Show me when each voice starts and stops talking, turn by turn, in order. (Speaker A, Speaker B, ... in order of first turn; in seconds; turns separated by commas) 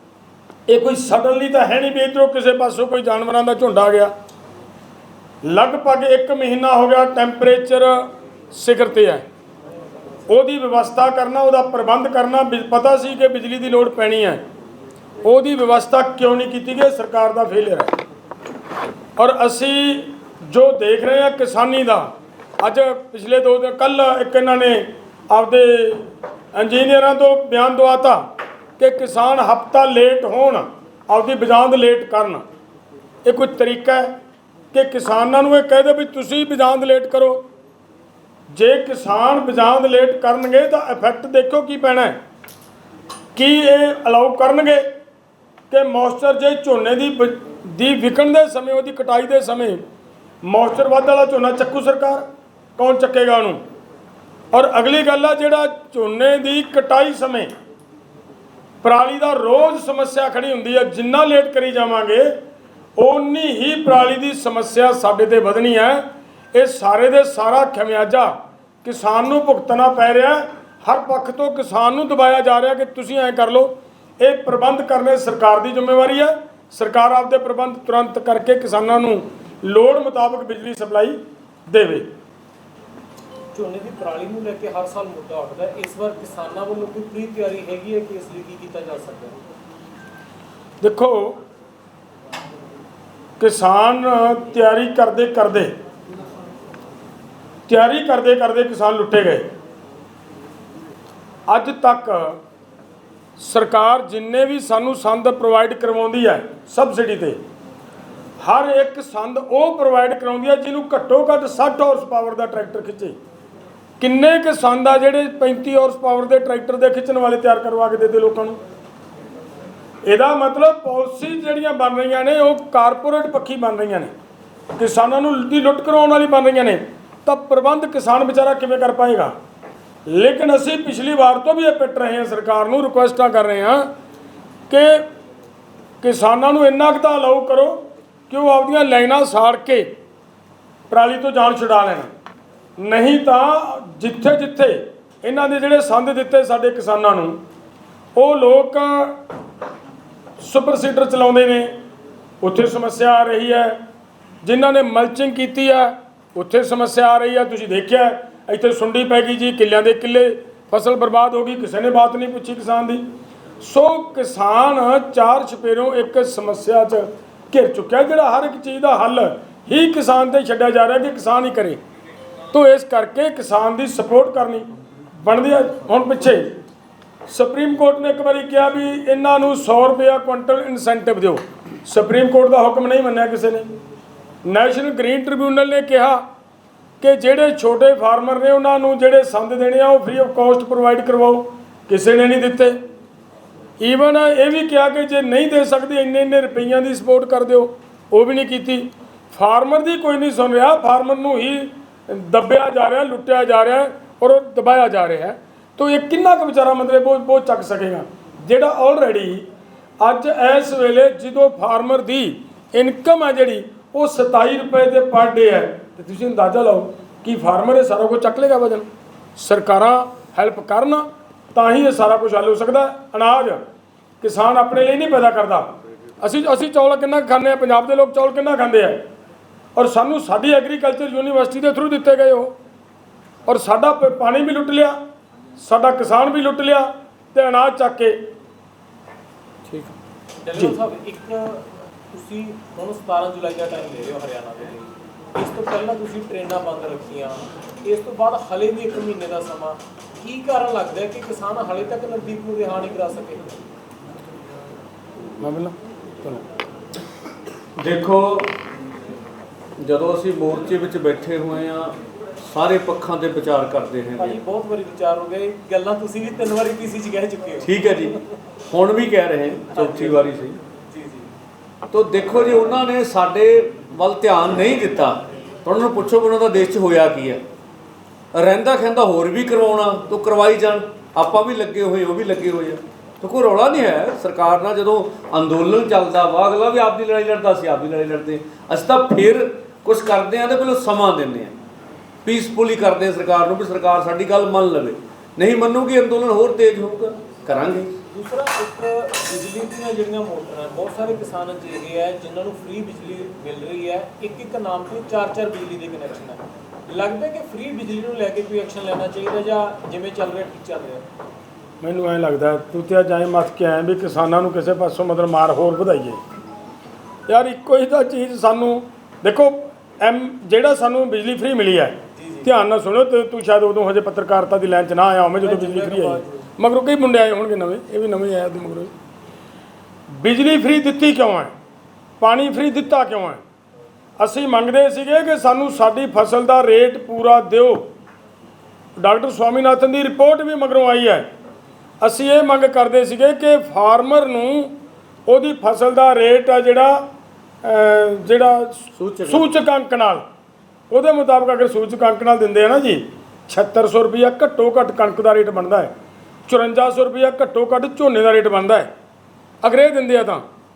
Speaker A: 0.7-4.1, Speaker A: 5.4-9.2, Speaker A: 10.3-14.4, Speaker A: 15.2-17.9, Speaker A: 19.2-28.2, Speaker A: 28.8-32.4, Speaker A: 33.2-34.1, Speaker A: 34.7-37.4, Speaker A: 38.5-42.1, Speaker A: 43.3-44.9, Speaker A: 45.7-49.8, Speaker A: 50.4-52.2, Speaker A: 52.8-53.6, Speaker A: 54.5-57.5, Speaker A: 58.8-62.4, Speaker A: 63.0-82.1, Speaker B: 83.5-89.4, Speaker A: 90.8-91.4, Speaker A: 93.4-95.7, Speaker A: 97.7-99.5, Speaker A: 101.5-102.4, Speaker A: 103.4-107.4, Speaker A: 108.4-113.2, Speaker A: 114.0-118.6, Speaker A: 120.0-124.1, Speaker A: 124.8-129.3, Speaker A: 130.1-133.9, Speaker A: 134.7-135.0, Speaker A: 136.0-139.9, Speaker A: 140.9-142.1, Speaker A: 142.8-147.4, Speaker A: 148.2-149.2, Speaker A: 150.4-151.7, Speaker A: 152.4-153.8, Speaker A: 154.4-163.0, Speaker A: 163.6-171.8, Speaker A: 172.5-174.7, Speaker A: 175.2-176.5, Speaker A: 177.3-183.7, Speaker A: 184.4-186.2, Speaker A: 187.0-192.8, Speaker A: 193.8-209.4, Speaker A: 210.0-223.6, Speaker A: 224.2-229.0, Speaker A: 229.8-232.5, Speaker A: 233.5-235.0, Speaker A: 235.6-238.3, Speaker B: 240.4-253.6, Speaker A: 255.4-256.4, Speaker C: 257.8-258.5, Speaker C: 259.8-264.4, Speaker B: 264.2-268.2, Speaker C: 267.6-268.1, Speaker C: 268.7-270.6, Speaker B: 269.7-270.3, Speaker B: 270.9-271.3, Speaker C: 271.9-277.4, Speaker C: 278.3-291.5, Speaker C: 292.2-297.9, Speaker B: 298.1-311.0, Speaker A: 311.8-316.2, Speaker A: 317.3-328.9, Speaker B: 322.1-322.5, Speaker B: 325.4-326.3, Speaker A: 330.1-331.5, Speaker A: 332.2-333.4, Speaker A: 334.2-337.9, Speaker A: 339.0-341.3, Speaker A: 342.0-344.7, Speaker A: 345.3-347.1, Speaker A: 347.6-350.2, Speaker C: 349.0-349.4, Speaker A: 350.9-355.9, Speaker A: 356.5-358.9, Speaker A: 359.6-360.4